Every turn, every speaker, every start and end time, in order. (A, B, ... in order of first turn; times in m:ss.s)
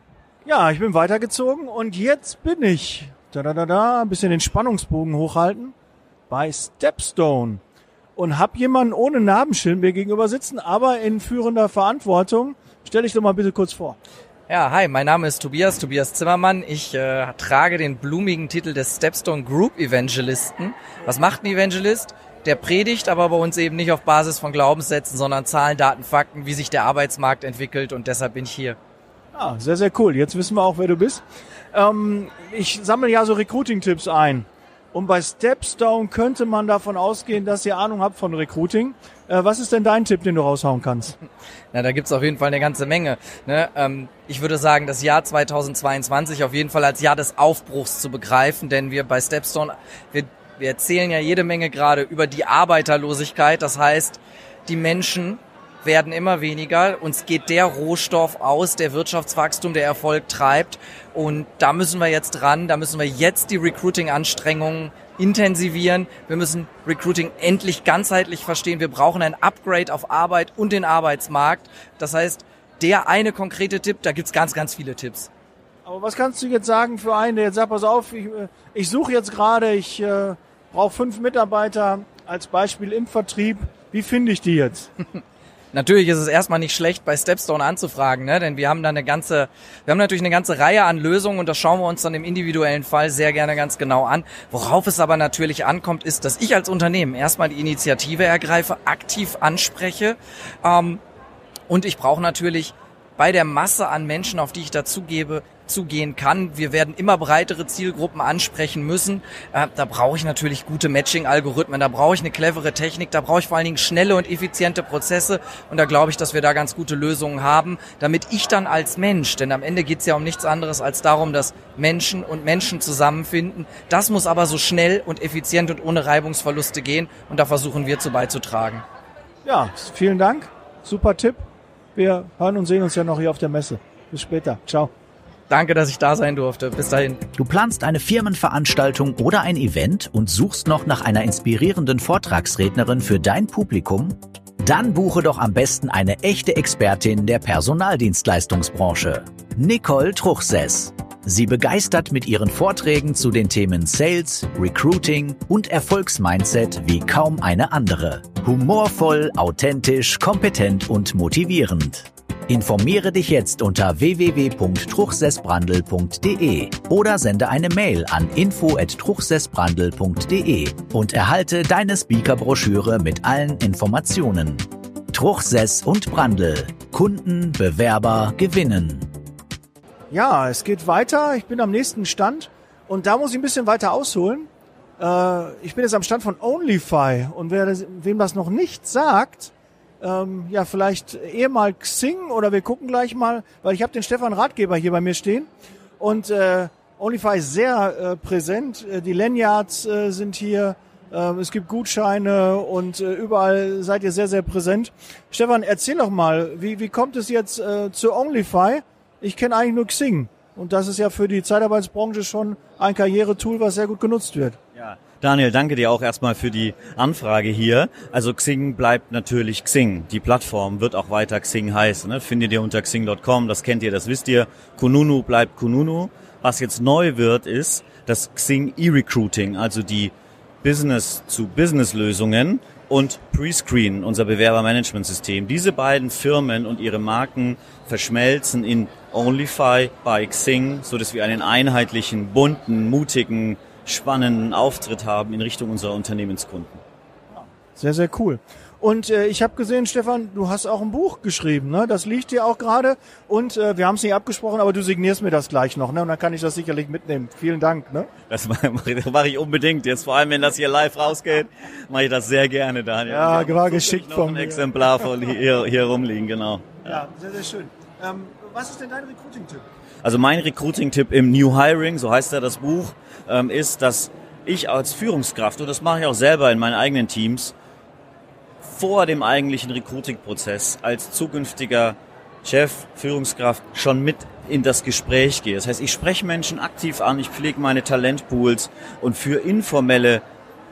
0:00.4-0:05.7 A
0:06.3-0:07.6 A
0:08.2-0:14.0 A
0:14.5-0:28.8 B
0:29.3-0:31.2 A
0:31.7-0:41.1 A
0:41.7-1:15.3 B
1:15.8-1:24.9 A
1:25.7-1:41.0 B
1:41.7-2:08.8 B
2:09.4-2:14.9 A
2:15.5-2:17.2 B
2:17.4-2:59.1 C
3:00.1-3:15.5 A
3:16.0-3:34.6 A
3:34.7-3:50.1 D
3:50.6-4:06.8 D
4:07.3-4:18.1 A
4:18.3-4:27.0 D
4:23.1-4:24.9 A
4:26.8-4:29.6 A
4:30.0-4:37.5 D
4:38.6-4:50.2 D